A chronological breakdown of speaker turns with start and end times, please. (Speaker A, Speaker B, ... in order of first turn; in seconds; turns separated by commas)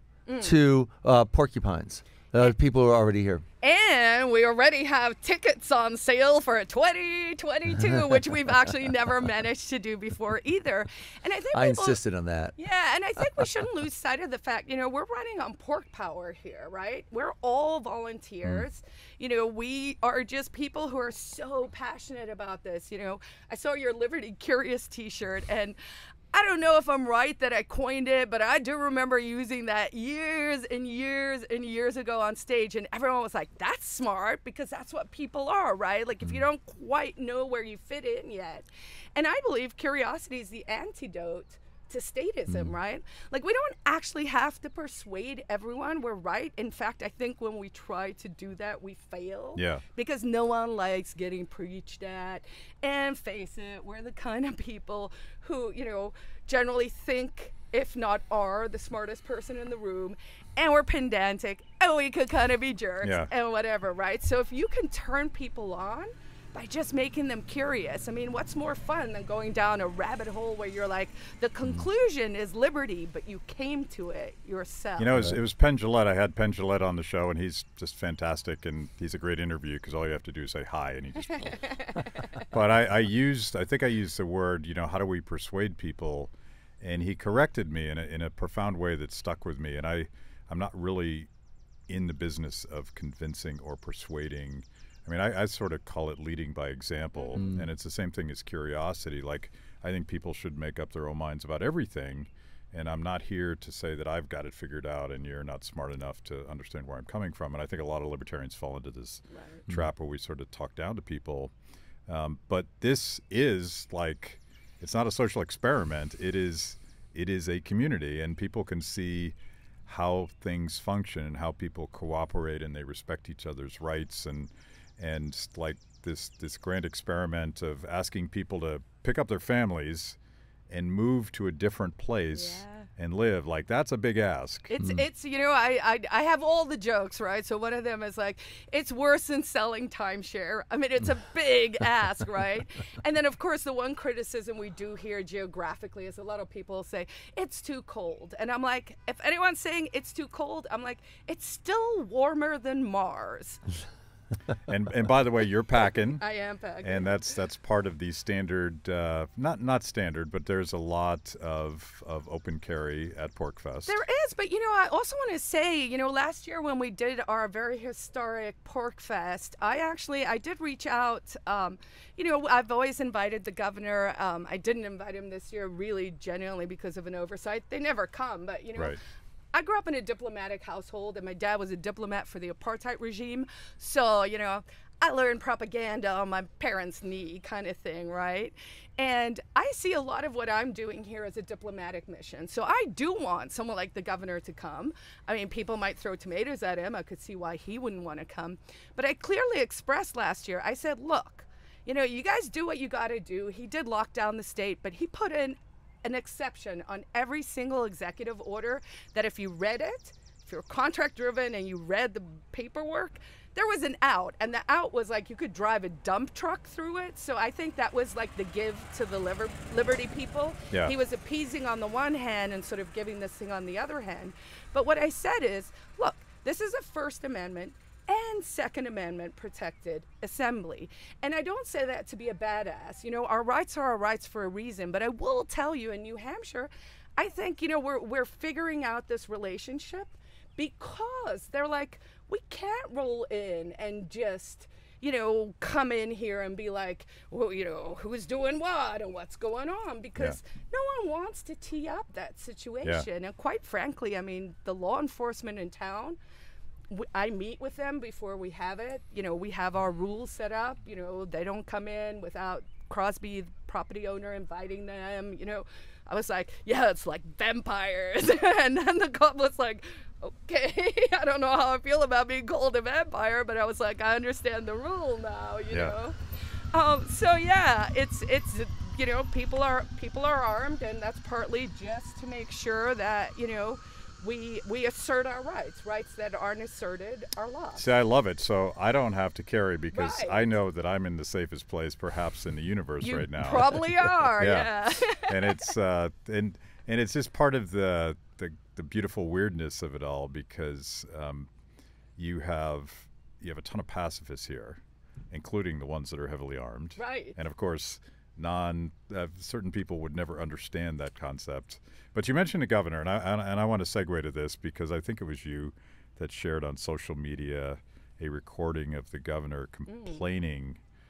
Speaker A: 0.3-0.6, Speaker B: 0.4-3.4, Speaker A: 3.6-12.0, Speaker B: 11.5-12.6, Speaker A: 12.6-25.8, Speaker A: 26.3-75.1, Speaker C: 49.6-49.8, Speaker C: 63.0-63.3, Speaker C: 75.0-91.3, Speaker C: 91.9-111.5, Speaker A: 97.2-97.5, Speaker B: 97.4-97.7, Speaker A: 109.3-109.6, Speaker C: 112.1-119.3, Speaker C: 119.9-130.2, Speaker C: 130.7-134.7, Speaker A: 132.3-132.9, Speaker A: 134.7-153.6, Speaker C: 154.7-156.2, Speaker A: 156.2-157.2, Speaker C: 156.8-164.0, Speaker A: 163.9-179.0, Speaker A: 179.5-256.2, Speaker A: 256.9-276.2, Speaker A: 276.7-287.9, Speaker C: 287.8-301.5, Speaker A: 289.9-290.5, Speaker A: 293.0-295.7, Speaker C: 302.2-320.8, Speaker A: 307.0-307.4, Speaker A: 319.9-320.2